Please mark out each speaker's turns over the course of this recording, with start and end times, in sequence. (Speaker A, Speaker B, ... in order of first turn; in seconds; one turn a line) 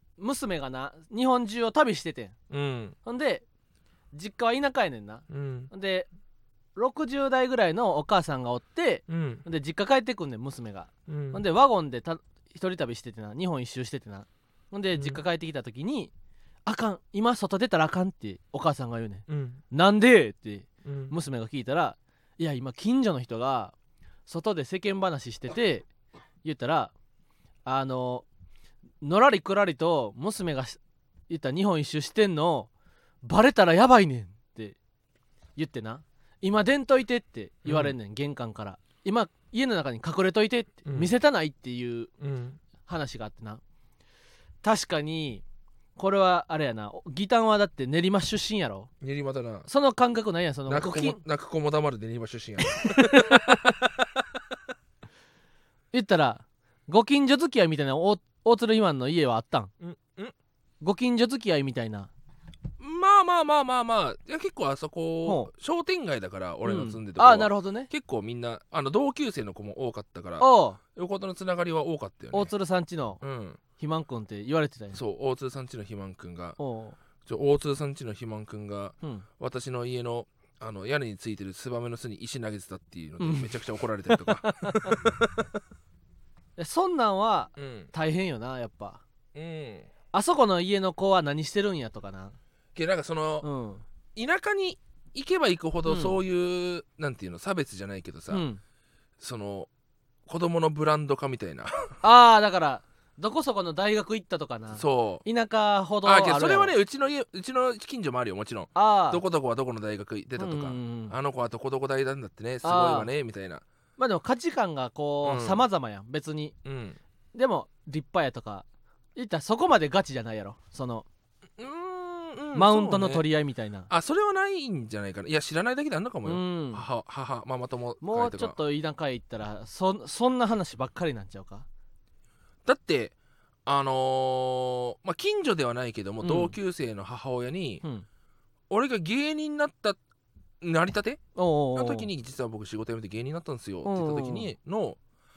Speaker A: 0.2-2.4
Speaker B: 2.5-3.0
Speaker A: 3.0-3.4
Speaker A: 4.1-6.1
Speaker B: 5.3-5.7
Speaker A: 6.8-16.1
Speaker B: 9.1-9.4
Speaker B: 11.1-11.4
Speaker B: 14.9-15.2
Speaker A: 16.6-23.7
Speaker B: 19.3-19.6
Speaker B: 20.8-21.1
Speaker A: 24.3-25.9
Speaker A: 26.4-26.9
Speaker A: 27.6-28.2
Speaker A: 29.0-32.7
Speaker A: 33.2-34.8
Speaker A: 35.6-42.1
Speaker B: 37.6-37.9
Speaker B: 40.9-41.1
Speaker B: 42.2-42.6
Speaker A: 42.9-43.6
Speaker A: 44.6-45.4
Speaker A: 46.0-48.9
Speaker B: 49.0-49.7
Speaker A: 49.7-51.2
Speaker B: 50.7-54.2
Speaker A: 52.7-53.4
Speaker A: 55.9-59.7
Speaker B: 59.8-60.3
Speaker A: 60.8-62.1
Speaker B: 62.8-72.5
Speaker A: 65.2-65.5
Speaker A: 66.6-67.9
Speaker A: 70.4-70.8
Speaker A: 72.3-73.2
Speaker B: 73.2-73.6
Speaker A: 73.8-75.0
Speaker B: 74.9-76.6
Speaker A: 76.6-77.0
Speaker B: 77.2-85.5
Speaker A: 83.2-83.5
Speaker A: 84.1-85.0
Speaker A: 86.6-89.0
Speaker B: 87.6-87.9
Speaker B: 89.3-89.9
Speaker A: 90.1-92.3
Speaker B: 92.8-93.5
Speaker A: 93.4-93.8
Speaker B: 94.1-98.4
Speaker A: 95.8-96.2
Speaker A: 98.3-98.6
Speaker B: 99.2-99.7
Speaker B: 100.3-101.9
Speaker A: 102.0-106.7
Speaker B: 104.8-105.2
Speaker B: 106.0-113.6
Speaker A: 108.8-109.2
Speaker A: 110.4-111.1
Speaker A: 112.6-113.1
Speaker A: 114.0-116.5
Speaker B: 115.2-115.6
Speaker B: 116.6-117.0
Speaker A: 117.3-118.6
Speaker A: 119.2-121.0
Speaker B: 121.6-123.2
Speaker A: 122.5-123.9
Speaker B: 123.9-128.6
Speaker A: 126.2-126.8
Speaker A: 128.0-131.7
Speaker B: 132.6-133.1
Speaker B: 133.7-137.8
Speaker A: 136.2-136.5
Speaker B: 138.7-140.0
Speaker B: 140.6-141.2
Speaker A: 141.3-142.1
Speaker B: 141.8-145.0
Speaker A: 143.8-144.5